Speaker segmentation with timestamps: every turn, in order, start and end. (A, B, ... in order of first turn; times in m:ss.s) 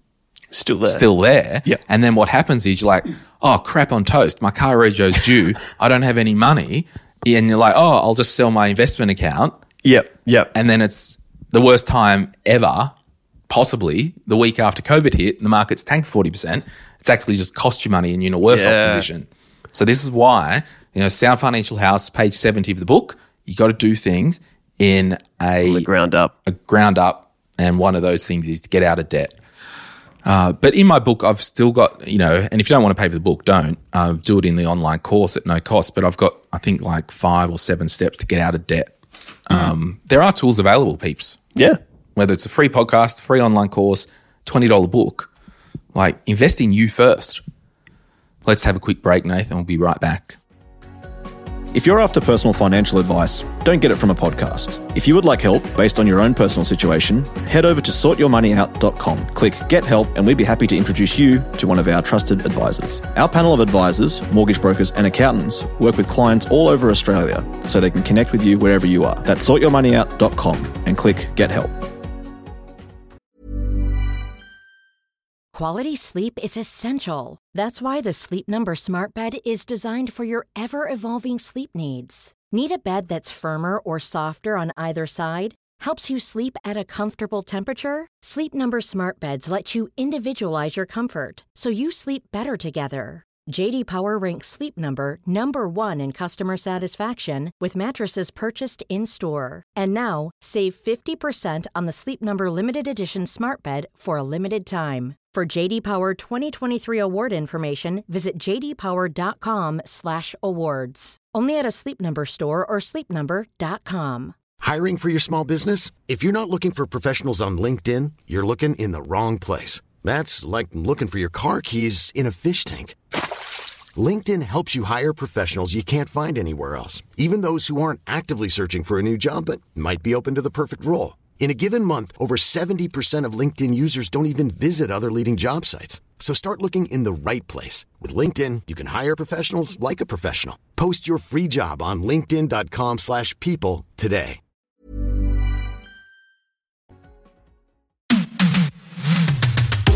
0:00.5-0:01.1 A
0:00.9-0:09.6 B
0:09.8-0:10.5 A
0:10.5-0:12.9 B
0:13.5-0:25.9 B
0:18.5-0:19.1 A
0:25.6-0:26.3 A
0:26.5-0:29.4 B
0:30.2-0:38.9 B
0:39.5-0:41.4 B
0:42.2-0:45.3 B
0:45.9-0:47.4 B
0:48.4-0:50.4 B
0:51.7-1:11.8 C
1:15.5-1:54.4 D
1:54.6-2:03.0 E
2:04.0-2:24.4 E